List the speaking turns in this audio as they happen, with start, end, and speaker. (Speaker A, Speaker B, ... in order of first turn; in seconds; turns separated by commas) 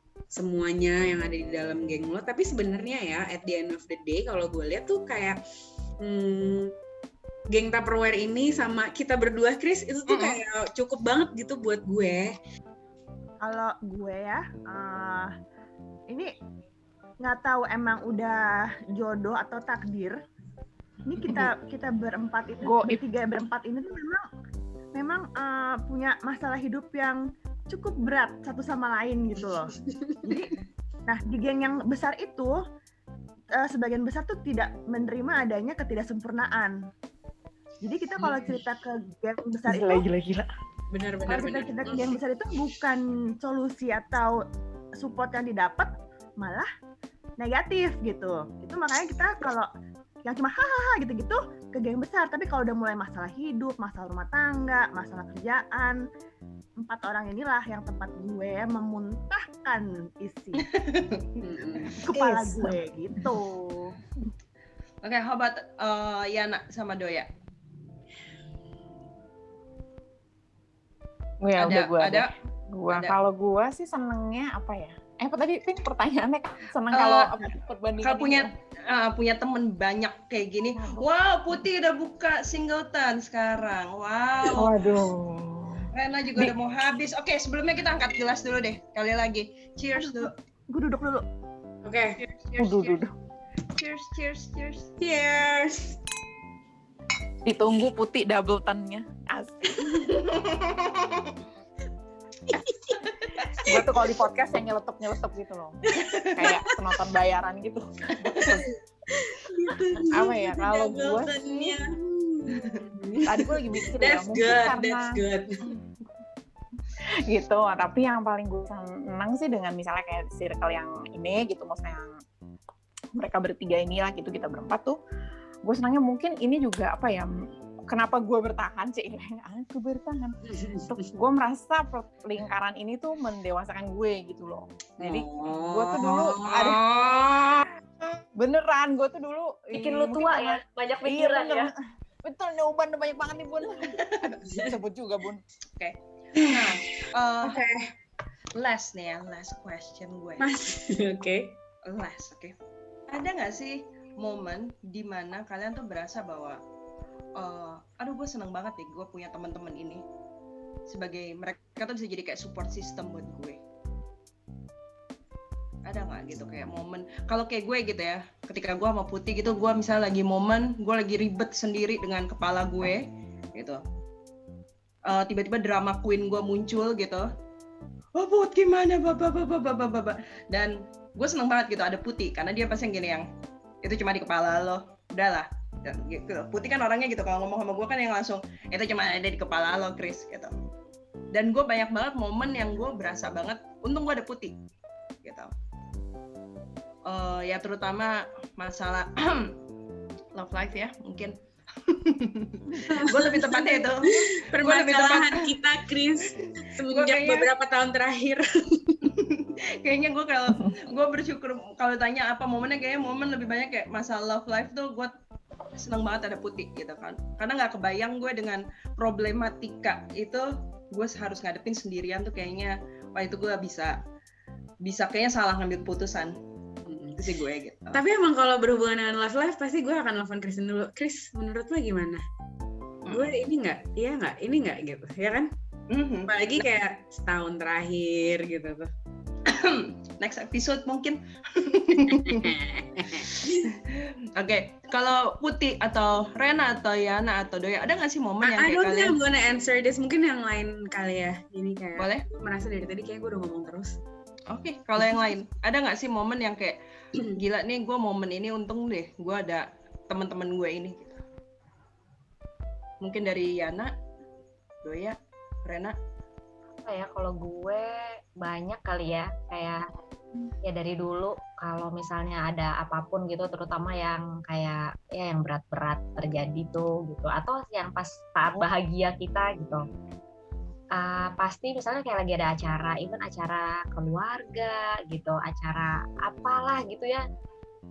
Speaker A: 0.3-5.4, Speaker A: 6.0-6.7, Speaker A: 7.5-12.3, Speaker B: 10.1-10.4, Speaker C: 13.4-15.3, Speaker C: 16.1-16.3, Speaker C: 17.2-20.2, Speaker C: 21.1-24.3, Speaker D: 22.6-23.0, Speaker C: 24.9-32.5, Speaker A: 29.9-30.2, Speaker C: 33.5-36.8, Speaker C: 37.8-40.0, Speaker A: 38.2-38.5, Speaker D: 39.7-40.5, Speaker A: 40.9-42.2, Speaker C: 41.3-44.4, Speaker C: 45.0-46.7, Speaker C: 47.4-49.7, Speaker C: 50.2-56.0, Speaker C: 56.8-60.7, Speaker B: 60.6-61.3, Speaker A: 61.4-62.0, Speaker B: 61.9-62.5, Speaker C: 62.0-64.0, Speaker B: 65.0-67.3, Speaker D: 71.4-78.5, Speaker B: 71.5-72.3, Speaker B: 72.9-73.1, Speaker B: 76.9-77.4, Speaker B: 78.0-84.8, Speaker D: 80.7-81.1, Speaker D: 84.5-86.5, Speaker B: 85.9-90.3, Speaker C: 90.7-91.2, Speaker A: 91.8-92.2, Speaker B: 92.2-93.0, Speaker D: 92.6-93.1, Speaker B: 93.7-94.9, Speaker A: 95.0-96.0, Speaker D: 97.4-99.9, Speaker B: 99.8-101.3, Speaker A: 102.5-103.7, Speaker D: 103.6-105.8, Speaker A: 106.0-106.5, Speaker D: 106.3-108.7, Speaker A: 109.1-115.6, Speaker D: 110.1-111.8, Speaker B: 112.5-112.8, Speaker D: 113.2-115.2, Speaker D: 117.2-122.2, Speaker D: 123.1-125.0, Speaker D: 125.6-127.3, Speaker D: 127.9-130.3, Speaker A: 130.4-131.1, Speaker D: 130.9-136.8, Speaker A: 135.0-136.8, Speaker B: 136.6-137.7, Speaker D: 138.1-141.7, Speaker E: 139.7-141.7, Speaker D: 142.2-145.4, Speaker B: 145.8-147.6, Speaker A: 146.3-147.9, Speaker B: 148.5-150.4, Speaker A: 150.4-151.6, Speaker B: 151.8-152.5, Speaker B: 153.1-156.6, Speaker B: 157.4-160.0, Speaker B: 160.9-163.6, Speaker B: 165.8-173.8, Speaker B: 175.1-177.3, Speaker B: 178.2-183.2, Speaker B: 183.8-190.5, Speaker B: 191.3-194.6, Speaker B: 195.2-195.5, Speaker B: 197.0-199.6, Speaker B: 200.3-205.5, Speaker A: 202.8-209.1, Speaker B: 206.9-207.5, Speaker B: 209.1-215.1, Speaker B: 215.8-224.0, Speaker B: 224.8-226.3, Speaker A: 226.8-227.2, Speaker B: 227.2-228.0, Speaker A: 227.9-232.2, Speaker B: 233.1-233.3, Speaker A: 233.1-235.5, Speaker B: 235.9-236.3, Speaker A: 236.3-238.9, Speaker B: 239.4-242.5, Speaker A: 242.2-243.7, Speaker B: 243.1-249.2, Speaker A: 248.4-253.9, Speaker B: 252.0-252.2, Speaker B: 254.5-256.8, Speaker B: 257.3-261.2, Speaker B: 263.0-263.9, Speaker B: 264.8-265.9, Speaker E: 266.8-269.8, Speaker E: 270.6-279.8, Speaker E: 280.9-287.2